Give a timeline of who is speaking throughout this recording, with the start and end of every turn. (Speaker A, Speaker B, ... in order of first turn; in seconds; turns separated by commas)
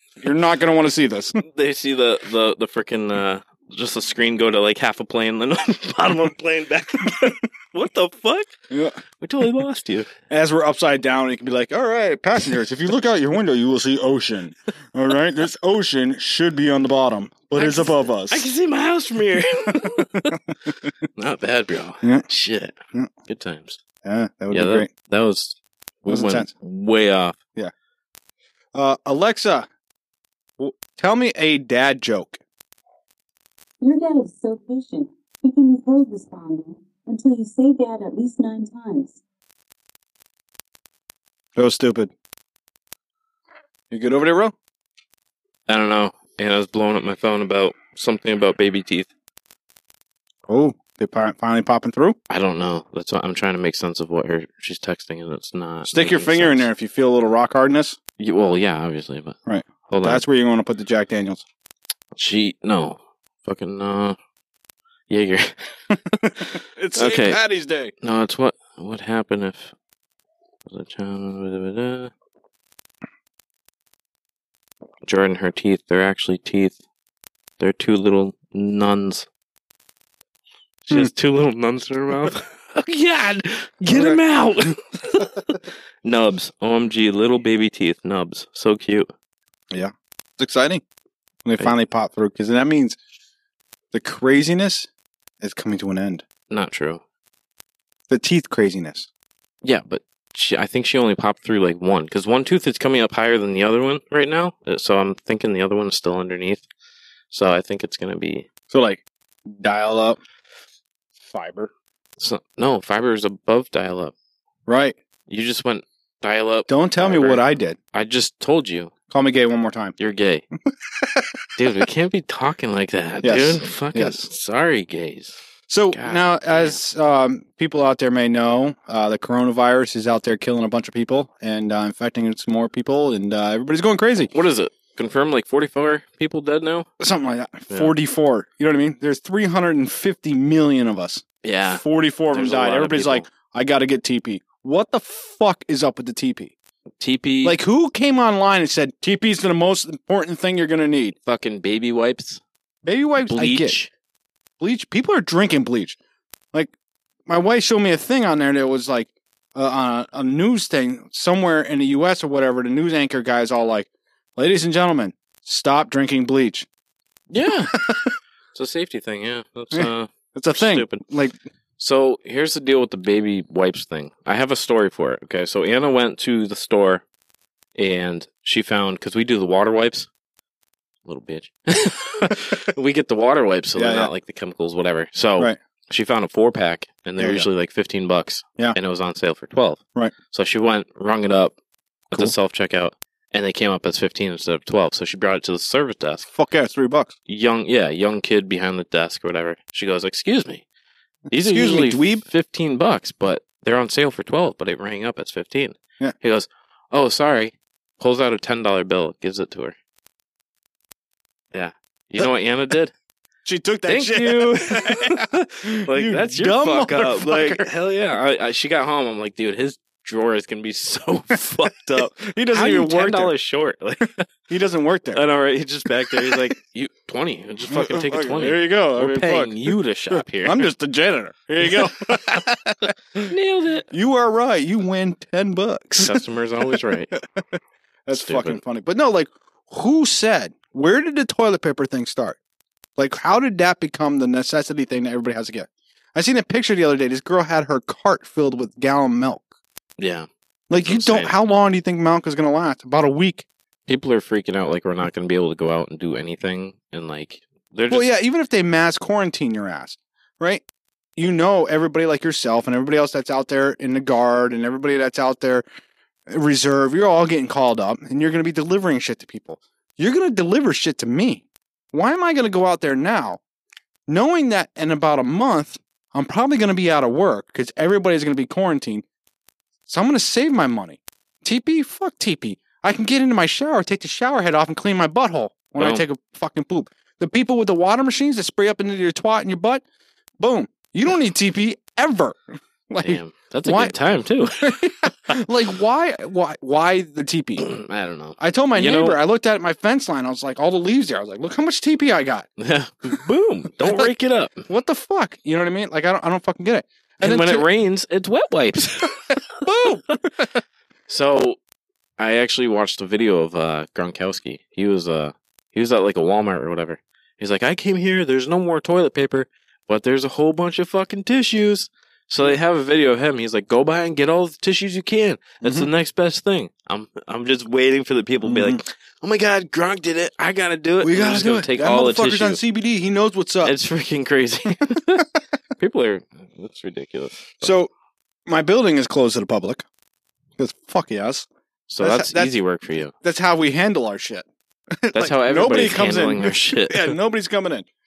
Speaker A: 0.2-1.4, Speaker B: 1.5-8.5, Speaker A: 8.7-9.0, Speaker B: 9.2-10.1, Speaker A: 10.3-18.5, Speaker B: 17.5-20.4, Speaker B: 21.2-22.8, Speaker A: 22.0-22.3, Speaker B: 23.3-23.8, Speaker A: 24.0-24.9, Speaker B: 24.5-27.4, Speaker A: 26.1-26.5, Speaker A: 28.7-29.7, Speaker A: 30.6-32.4, Speaker C: 33.8-39.2, Speaker A: 41.6-42.1, Speaker A: 43.9-44.5, Speaker B: 45.7-49.1, Speaker A: 50.5-52.2, Speaker B: 52.3-56.7, Speaker A: 55.9-58.0, Speaker B: 58.2-60.2, Speaker A: 59.5-61.4, Speaker B: 62.1-64.2, Speaker B: 65.1-65.7, Speaker A: 66.1-67.9, Speaker B: 67.0-67.4, Speaker B: 68.0-69.7, Speaker B: 70.7-72.1, Speaker B: 75.0-76.8, Speaker B: 77.6-79.3, Speaker B: 80.9-89.1, Speaker A: 83.9-84.2, Speaker A: 89.7-90.8, Speaker A: 91.5-93.0, Speaker A: 93.9-94.9, Speaker A: 95.4-96.2, Speaker B: 96.5-97.0, Speaker A: 98.1-99.1, Speaker B: 99.6-106.6, Speaker B: 107.3-108.5, Speaker A: 108.7-110.2, Speaker A: 111.2-111.7, Speaker B: 112.2-114.1, Speaker A: 114.7-115.0, Speaker B: 115.3-118.9, Speaker A: 116.7-117.8, Speaker A: 119.1-120.0, Speaker B: 120.0-120.5, Speaker A: 121.0-121.3, Speaker B: 121.6-125.4, Speaker A: 123.2-124.2, Speaker A: 125.7-134.3, Speaker B: 125.9-126.8, Speaker B: 134.3-136.9, Speaker A: 137.0-146.5, Speaker B: 141.4-143.3, Speaker B: 147.0-147.6, Speaker A: 147.4-151.2, Speaker B: 151.2-152.4, Speaker A: 152.8-153.8, Speaker B: 153.3-153.9, Speaker A: 154.6-156.0, Speaker A: 157.3-166.7, Speaker B: 167.3-167.8, Speaker A: 167.7-168.1, Speaker B: 168.5-171.0, Speaker A: 169.7-171.4, Speaker B: 171.8-177.0, Speaker B: 177.8-180.1, Speaker B: 181.1-191.6, Speaker A: 183.8-184.1, Speaker A: 187.2-187.5, Speaker B: 192.1-196.3, Speaker A: 196.3-197.1, Speaker B: 197.3-200.6, Speaker A: 201.3-202.3, Speaker B: 201.3-209.8, Speaker B: 211.5-212.9, Speaker A: 213.4-217.7, Speaker B: 213.9-224.2, Speaker A: 222.0-223.3, Speaker A: 224.5-225.2, Speaker B: 225.1-230.7, Speaker A: 226.1-226.5, Speaker A: 227.7-233.3, Speaker B: 233.3-233.9, Speaker A: 233.9-237.4, Speaker B: 236.0-237.1, Speaker A: 238.1-242.4, Speaker B: 238.2-238.6, Speaker A: 243.0-249.5, Speaker B: 250.0-251.3, Speaker A: 250.7-253.5, Speaker B: 253.9-258.1, Speaker A: 257.9-260.6, Speaker A: 261.2-265.6, Speaker A: 266.3-273.4, Speaker A: 274.1-279.0, Speaker A: 279.9-289.8, Speaker B: 285.8-286.1, Speaker A: 290.4-294.0, Speaker B: 293.0-294.8, Speaker A: 294.6-297.7, Speaker B: 297.6-299.2, Speaker A: 298.4-302.5, Speaker B: 302.6-304.7, Speaker A: 303.8-304.1, Speaker A: 304.7-307.7, Speaker B: 307.2-309.2, Speaker A: 309.6-310.5, Speaker B: 311.1-311.6, Speaker B: 312.2-332.6, Speaker A: 325.6-325.9, Speaker A: 328.4-328.8, Speaker A: 331.0-333.8, Speaker B: 333.6-335.3, Speaker B: 335.8-337.8, Speaker A: 337.6-337.9, Speaker A: 338.5-339.9, Speaker A: 340.6-341.5, Speaker B: 341.9-343.1, Speaker A: 342.0-342.6, Speaker A: 343.1-344.5, Speaker A: 345.0-347.9, Speaker B: 345.1-347.2